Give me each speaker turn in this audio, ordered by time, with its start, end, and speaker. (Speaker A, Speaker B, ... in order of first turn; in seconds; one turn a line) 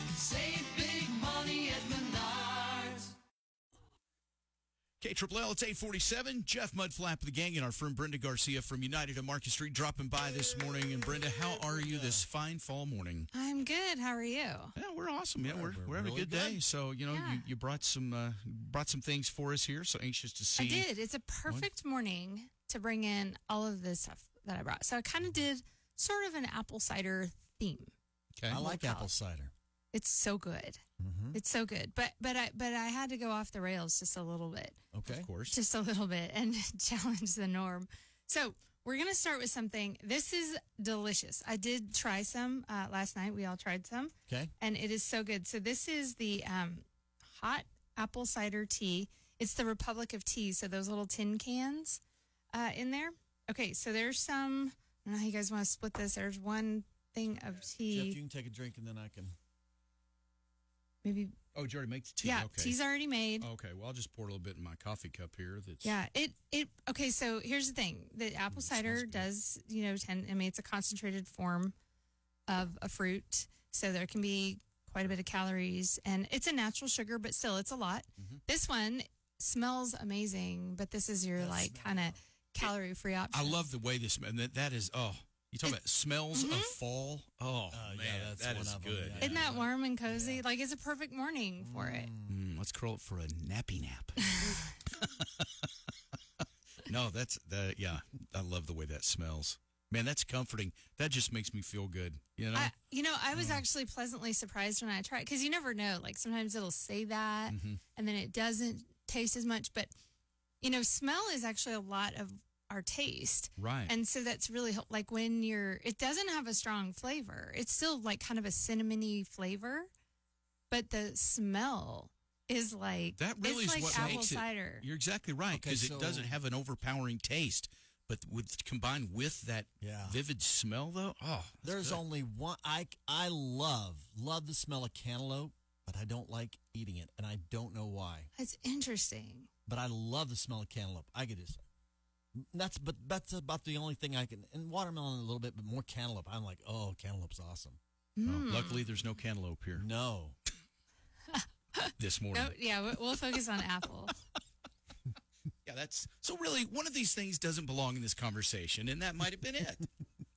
Speaker A: 0.1-3.1
Speaker B: 5.0-13.3
Speaker C: 11.6-12.2
Speaker D: 13.3-14.7
Speaker B: 14.8-20.9
Speaker C: 15.4-16.6
Speaker D: 17.1-17.4
Speaker D: 20.6-27.9
Speaker C: 28.5-29.5
Speaker D: 28.5-29.1
Speaker D: 29.9-30.8
Speaker C: 31.0-31.4
Speaker D: 31.3-34.8
Speaker C: 34.9-35.3
Speaker B: 35.0-35.5
Speaker D: 35.5-52.0
Speaker D: 52.5-58.2
Speaker C: 57.8-59.3
Speaker D: 61.0-61.4
Speaker B: 61.5-62.8
Speaker D: 62.2-63.5
Speaker B: 63.4-66.0
Speaker D: 65.8-71.7
Speaker B: 68.5-69.2
Speaker D: 72.5-83.6
Speaker C: 81.4-82.2
Speaker B: 83.3-89.6
Speaker D: 86.3-86.7
Speaker C: 87.7-90.4
Speaker D: 89.2-92.1
Speaker C: 91.6-92.4
Speaker B: 92.2-95.7
Speaker D: 94.3-94.6
Speaker B: 96.8-102.7
Speaker D: 102.5-109.9
Speaker B: 103.3-103.6
Speaker B: 107.5-107.8
Speaker D: 110.6-119.9
Speaker B: 113.6-113.9
Speaker D: 120.7-124.8
Speaker B: 123.2-132.0
Speaker C: 123.8-124.2
Speaker C: 125.5-126.3
Speaker C: 129.8-130.2
Speaker C: 131.6-138.3
Speaker D: 138.3-139.5
Speaker C: 139.7-141.6
Speaker C: 142.3-147.8
Speaker D: 148.2-148.8
Speaker B: 148.2-149.8
Speaker C: 149.7-150.4
Speaker D: 151.3-154.2
Speaker B: 152.0-152.5
Speaker B: 155.6-159.9